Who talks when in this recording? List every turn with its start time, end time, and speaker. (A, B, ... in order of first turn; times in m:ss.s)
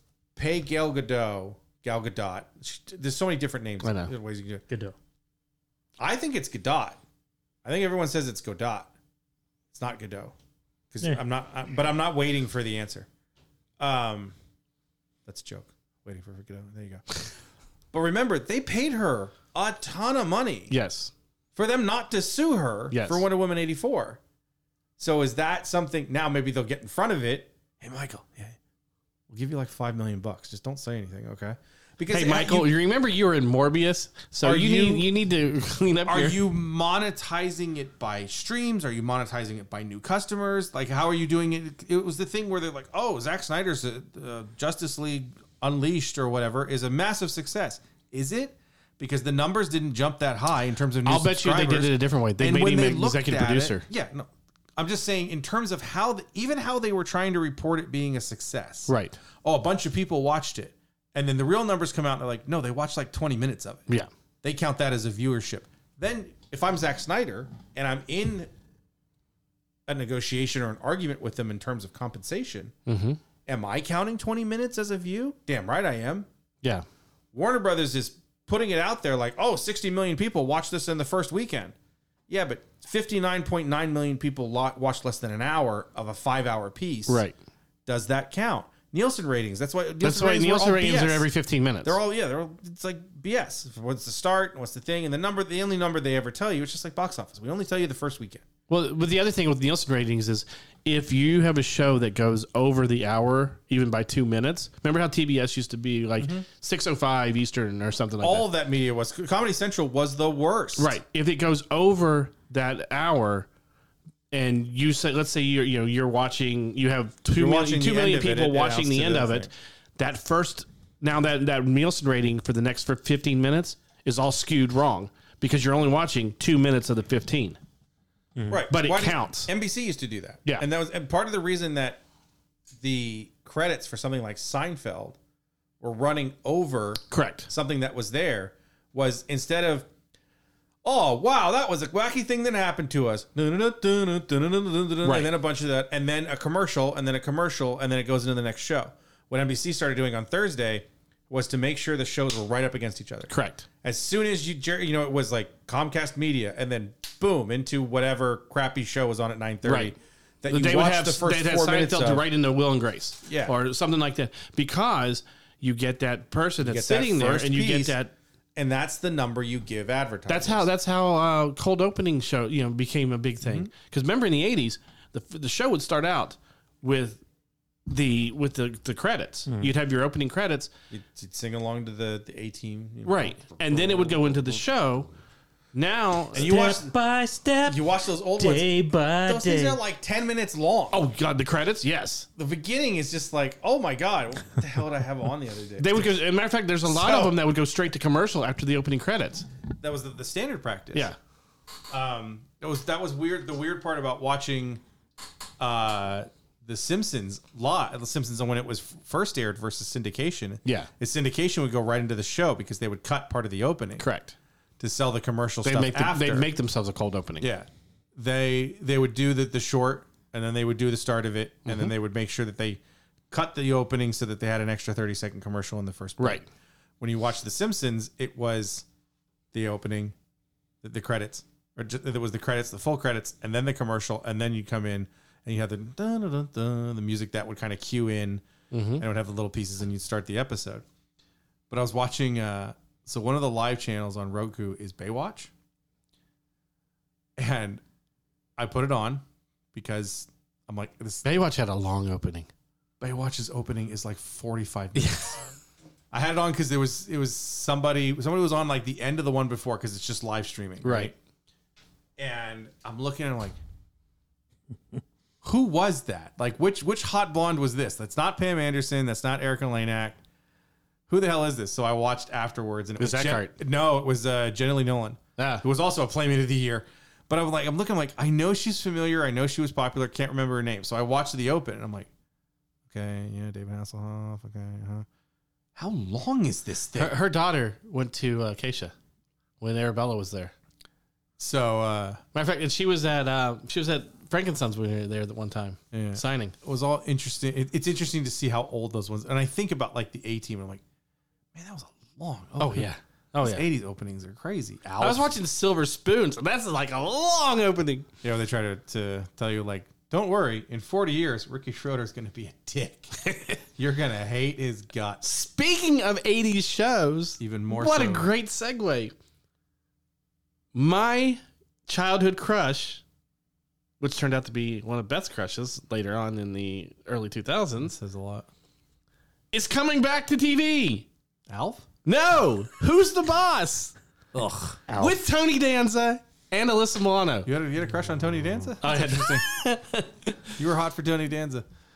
0:00.4-0:04.6 A
0:03.8-0:04.1 B
0:06.0-0:07.0 A
0:07.6-0:08.9 A
0:09.7-0:10.3 A
0:10.9-0:13.1 A
0:13.8-0:14.4 A
0:15.2-0:17.0 A
0:17.9-0:20.7 A
0:20.7-0:21.1 B
0:21.5-0:24.2 A
0:22.9-0:23.2 B
0:25.0-0:28.6 A
0:29.3-0:32.7 A
0:32.1-0:36.4 B
0:34.4-0:35.1 A
0:36.0-1:03.9 A
0:51.0-0:53.8 B
0:58.9-0:59.2 B
1:04.4-1:08.5 A
1:09.9-1:12.7 A
1:12.8-1:13.2 B
1:13.4-1:16.3 A
1:17.3-1:21.7 A
1:22.3-1:27.2 A
1:27.1-1:27.3 B
1:27.8-1:31.2 A
1:30.0-1:32.0 B
1:31.8-1:38.4 A
1:38.7-1:48.5 B
1:46.2-1:46.4 A
1:48.2-1:50.9 A
1:50.8-1:53.5 B
1:54.3-2:07.6 B
1:57.3-1:59.5 A
2:08.5-2:12.0 A
2:08.7-2:09.5 B
2:12.8-2:15.2 A
2:15.8-2:19.9 A
2:17.1-2:17.5 B
2:20.8-2:42.2 A
2:25.0-2:25.3 B
2:33.3-2:33.6 B
2:39.6-2:39.9 B
2:40.5-2:48.1 B
2:43.2-2:43.5 A
2:46.6-2:48.0 A
2:48.6-2:50.7 A
2:50.3-2:57.2 B
2:53.4-2:53.7 A
2:57.9-3:00.7 B
3:00.9-3:04.6 A
3:03.0-3:05.1 B
3:05.7-3:06.7 B
3:06.3-3:06.9 A
3:06.4-3:09.8 C
3:07.6-3:11.0 A
3:10.9-3:12.3 B
3:12.4-3:16.1 A
3:15.8-3:19.4 B
3:16.8-3:17.4 A
3:19.8-3:21.1 A
3:21.9-3:24.8 A
3:25.6-3:34.0 A
3:30.6-3:30.9 B
3:34.0-3:34.4 B
3:34.8-3:36.5 A
3:35.6-3:37.5 B
3:37.4-3:46.4 A
3:41.6-3:41.9 B
3:46.2-3:46.4 B
3:47.0-3:48.8 A
3:49.5-3:50.1 A
3:50.8-3:58.4 A
3:58.7-3:59.0 B
3:59.0-4:00.8 A
4:01.7-4:05.5 A
4:07.4-4:07.8 A
4:08.6-4:09.2 A
4:09.7-4:11.2 A
4:11.2-4:12.5 B
4:13.0-4:15.3 A
4:14.9-4:15.4 B
4:16.1-4:21.1 A
4:20.8-4:21.1 B
4:22.2-4:23.6 A
4:25.4-4:30.2 A
4:31.1-4:42.1 A
4:33.0-4:33.5 B
4:35.4-4:35.6 B
4:42.9-4:45.0 A
4:45.8-4:47.1 A
4:46.9-4:48.9 B
4:49.6-4:50.5 B
4:51.4-4:52.2 A
4:52.3-4:56.5 B
4:55.9-5:00.8 A
5:01.5-5:02.9 A
5:02.6-5:03.6 B
5:03.4-5:05.3 A
5:05.0-5:08.1 B
5:08.2-5:15.2 A
5:15.2-5:19.1 B
5:17.4-5:18.3 A
5:20.7-5:23.0 B
5:24.0-5:28.0 B
5:27.8-5:28.5 A
5:29.5-5:31.1 B
5:31.5-5:31.9 A
5:32.0-5:33.9 B
5:34.3-5:34.8 A
5:34.6-5:37.5 B
5:34.9-5:35.2 C
5:37.4-5:39.4 A
5:38.8-5:40.4 B
5:40.6-5:41.6 A